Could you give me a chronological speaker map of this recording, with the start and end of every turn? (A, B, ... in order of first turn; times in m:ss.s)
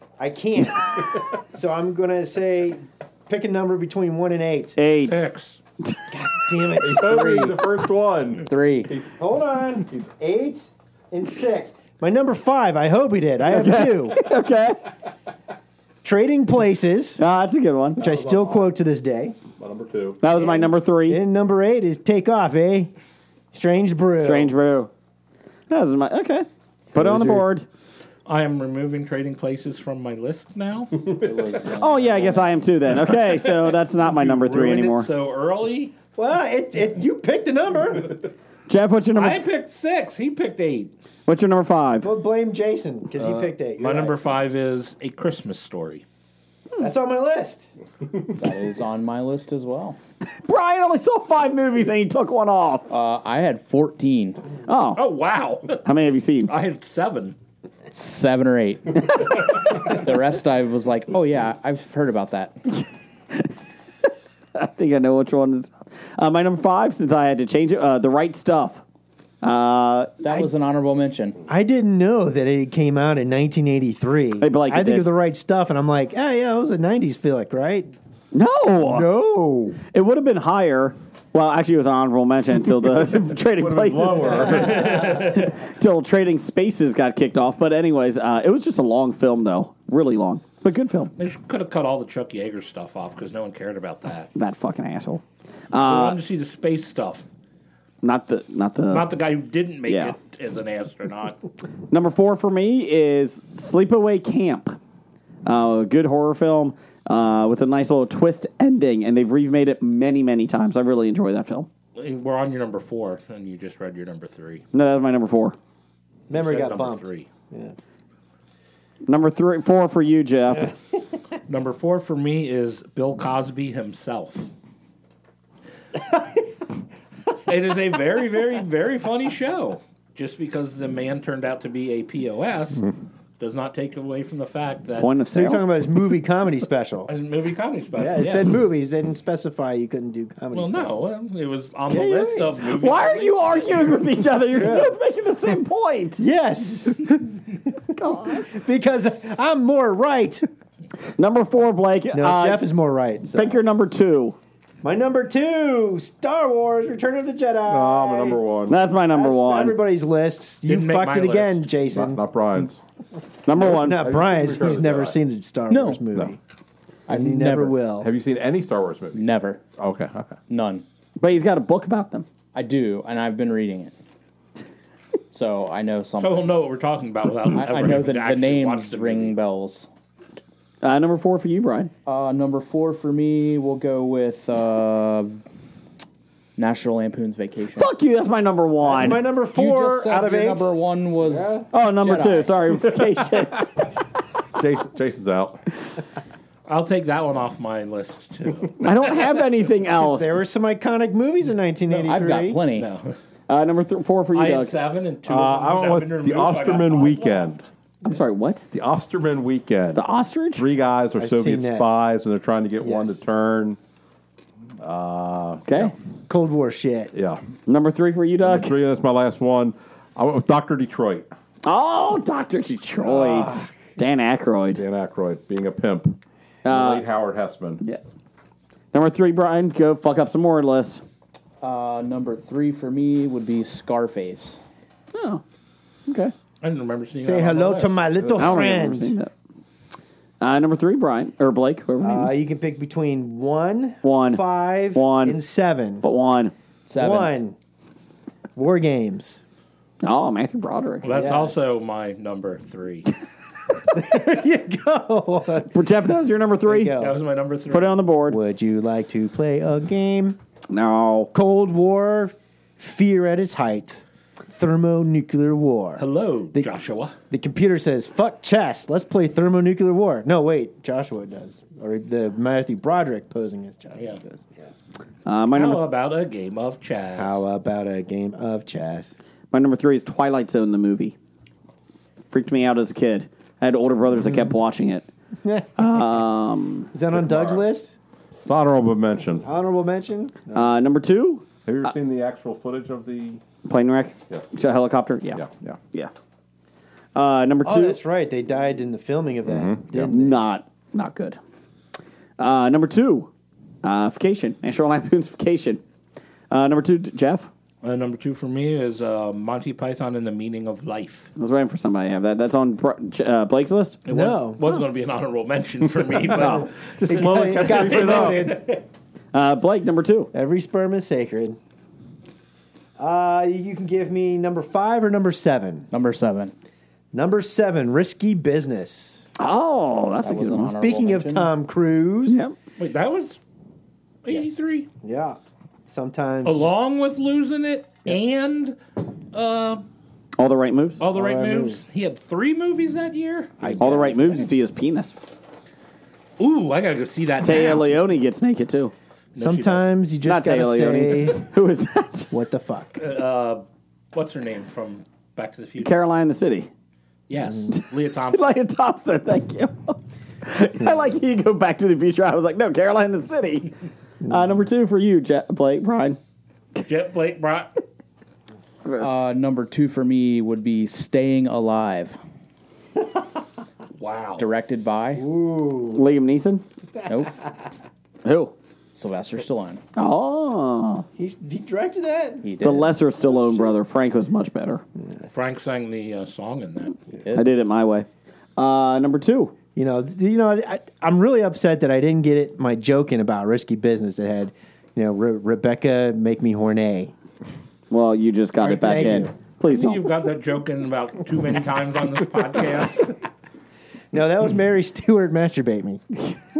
0:00.2-0:04.8 A
0:04.8-0:05.2 B
0:05.1-0:05.6 C
0:06.1-0:07.6 A
0:06.8-0:09.2 D
0:07.0-0:07.5 E
0:08.5-0:09.0 E
0:09.2-0:14.2 A
0:13.5-0:14.8 B
0:16.0-0:17.2 A
0:17.2-0:18.0 B
0:18.0-0:19.4 A
0:18.0-0:18.7 D
0:19.6-0:20.2 D
0:20.2-0:21.2 B
0:20.3-0:22.9 A
0:23.5-0:24.6 A
0:24.2-0:24.9 B
0:25.7-0:27.7 B
0:27.0-0:27.5 A
0:28.3-0:31.0 C
0:31.0-0:31.6 D
0:31.1-0:32.7 E
0:31.8-0:35.1 B
0:32.9-0:35.9 C
0:36.2-0:38.3 A
0:38.7-0:39.4 B
0:39.1-0:40.9 C
0:41.3-0:42.1 B
0:42.0-0:44.2 A
0:43.3-0:46.0 C
0:46.8-0:47.7 A
0:48.3-0:50.0 E
0:50.4-0:52.9 B
0:52.9-0:54.4 E
0:54.6-0:55.0 B
0:55.0-0:55.8 C
0:55.8-0:56.5 B
0:56.5-0:57.4 C
0:57.9-1:02.6 E
1:04.6-1:08.8 B
1:09.4-1:10.1 B
1:10.2-1:11.4 E
1:11.5-1:17.9 A
1:14.4-1:15.1 B
1:18.3-1:19.1 B
1:18.8-1:19.8 A
1:19.9-1:31.1 B
1:23.1-1:25.2 D
1:24.5-1:25.5 C
1:31.2-1:34.3 C
1:34.4-1:36.2 B
1:35.8-1:37.3 C
1:38.0-1:39.1 B
1:38.9-1:41.4 C
1:39.9-1:40.2 B
1:41.9-1:44.8 B
1:45.5-1:51.7 B
1:52.0-1:54.6 C
1:54.7-1:55.6 B
1:56.3-1:57.8 A
1:56.3-1:57.3 C
1:59.1-2:00.7 B
2:01.5-2:04.5 C
2:07.4-2:12.9 C
2:13.4-2:15.1 C
2:15.0-2:15.7 B
2:15.3-2:17.1 A
2:17.1-2:18.6 C
2:18.0-2:21.2 A
2:20.5-2:24.1 C
2:21.9-2:26.2 B
2:24.4-2:25.0 A
2:26.2-2:27.4 A
2:27.9-2:28.5 B
2:28.4-2:30.5 A
2:31.2-2:32.7 B
2:32.1-2:33.6 A
2:33.3-2:34.4 B
2:34.8-2:38.4 A
2:37.7-2:38.8 D
2:38.7-2:39.8 B
2:39.1-2:42.2 A
2:40.7-2:41.7 C
2:41.9-2:42.8 D
2:43.5-2:44.1 B
2:43.5-2:46.4 A
2:43.6-2:45.2 D
2:45.7-2:46.1 E
2:47.1-2:47.8 E
2:47.1-2:48.1 A
2:48.0-2:50.4 D
2:49.1-2:49.6 E
2:50.5-2:50.8 E
2:51.2-2:52.3 B
2:52.5-2:53.9 E
2:55.3-2:56.6 E
2:56.2-2:59.4 C
2:57.5-2:59.9 E
3:00.8-3:01.9 B
3:02.1-3:05.4 E
3:06.6-3:07.9 E
3:07.8-3:09.3 B
3:08.8-3:10.7 A
3:09.4-3:12.6 E
3:11.2-3:11.7 A
3:11.7-3:13.9 B
3:14.6-3:15.6 D
3:16.7-3:18.8 C
3:18.8-3:20.4 B
3:19.9-3:22.6 A
3:21.9-3:22.9 E
3:22.8-3:23.2 C
3:23.5-3:24.7 B
3:24.4-3:27.6 C
3:25.3-3:27.6 D
3:28.0-3:28.6 B
3:28.7-3:30.0 D
3:30.0-3:30.6 B
3:30.6-3:33.8 D
3:31.2-3:31.9 A
3:32.8-3:33.2 A
3:34.8-3:35.9 D
3:35.7-3:35.9 B
3:36.3-3:37.1 A
3:37.1-3:37.4 D
3:37.7-3:38.8 B
3:38.4-3:41.3 D
3:41.6-3:44.8 B
3:43.0-3:43.7 A
3:44.8-3:47.8 D
3:46.6-3:47.0 B
3:48.9-3:51.0 B
3:51.6-3:54.6 E
3:55.1-3:55.4 B
3:56.1-3:56.3 B
3:56.6-3:58.0 C
3:57.2-3:59.2 A
3:58.2-3:58.6 D
3:58.4-3:59.3 B
4:00.4-4:02.4 B
4:02.0-4:06.0 A
4:04.0-4:05.4 B
4:06.0-4:06.5 B
4:06.9-4:07.3 E
4:06.9-4:07.6 A
4:08.6-4:09.4 A
4:10.0-4:11.3 B
4:11.0-4:13.1 C
4:11.1-4:11.7 A
4:13.9-4:15.9 A
4:15.7-4:17.0 B
4:16.6-4:17.2 A
4:16.9-4:18.1 C
4:17.7-4:18.4 B
4:18.3-4:20.4 A
4:20.7-4:21.3 B
4:21.3-4:26.7 A
4:26.0-4:27.1 C
4:27.3-4:34.7 A
4:35.2-4:35.8 B
4:35.6-4:37.4 C
4:37.2-4:39.1 A
4:39.5-4:41.2 B
4:42.3-4:45.1 B
4:44.2-4:44.5 A
4:45.4-4:46.2 A
4:45.8-4:46.9 B
4:46.9-4:47.9 A
4:47.1-4:47.6 D
4:48.5-4:49.5 D
4:49.4-4:50.8 A
4:50.5-4:51.4 B
4:51.6-4:53.4 D
4:53.6-4:56.1 B
4:55.4-4:55.8 D
4:57.2-4:58.0 B
4:57.6-5:00.4 A
4:59.4-5:00.1 D
5:00.0-5:01.4 B
5:02.4-5:03.3 B
5:03.8-5:05.8 B
5:06.5-5:07.5 B
5:07.8-5:11.3 C
5:11.4-5:14.0 B
5:14.1-5:18.8 C
5:14.1-5:14.8 A
5:16.3-5:18.8 A
5:16.4-5:16.6 B
5:17.0-5:18.5 D
5:19.3-5:20.3 B
5:20.3-5:21.6 A
5:23.0-5:25.9 A
5:25.9-5:26.5 E
5:27.1-5:29.3 A
5:29.4-5:30.7 B
5:30.2-5:31.5 E
5:30.8-5:32.4 A
5:32.3-5:32.6 B
5:32.8-5:33.4 C
5:34.2-5:34.9 C
5:35.0-5:36.7 A
5:36.4-5:38.8 C
5:39.3-5:39.9 C
5:40.4-5:41.0 B
5:41.0-5:43.9 C
5:41.1-5:41.8 A
5:43.6-5:44.5 A
5:43.8-5:45.1 B
5:46.4-5:47.9 C
5:47.4-5:48.9 B
5:49.4-5:49.9 C
5:49.4-5:51.4 A
5:50.2-5:52.3 B
5:52.3-5:53.0 A
5:53.0-5:56.0 C
5:55.8-5:56.7 B
5:57.3-5:58.5 C
5:57.7-6:03.7 B
6:04.3-6:06.2 B
6:06.8-6:07.7 C
6:09.0-6:12.2 E
6:14.0-6:14.4 C
6:14.4-6:15.2 E
6:15.2-6:16.0 A
6:15.9-6:16.6 B
6:17.1-6:17.4 E
6:18.2-6:18.5 B
6:19.0-6:19.8 E
6:20.0-6:21.1 B
6:21.2-6:22.5 A
6:22.4-6:23.0 E
6:22.6-6:24.8 B
6:23.2-6:23.8 A
6:25.3-6:27.0 C
6:27.2-6:27.6 E
6:27.4-6:29.5 B
6:29.8-6:37.1 A
6:37.9-6:40.0 B
6:38.6-6:39.3 A
6:39.6-6:43.2 C
6:44.1-6:46.0 A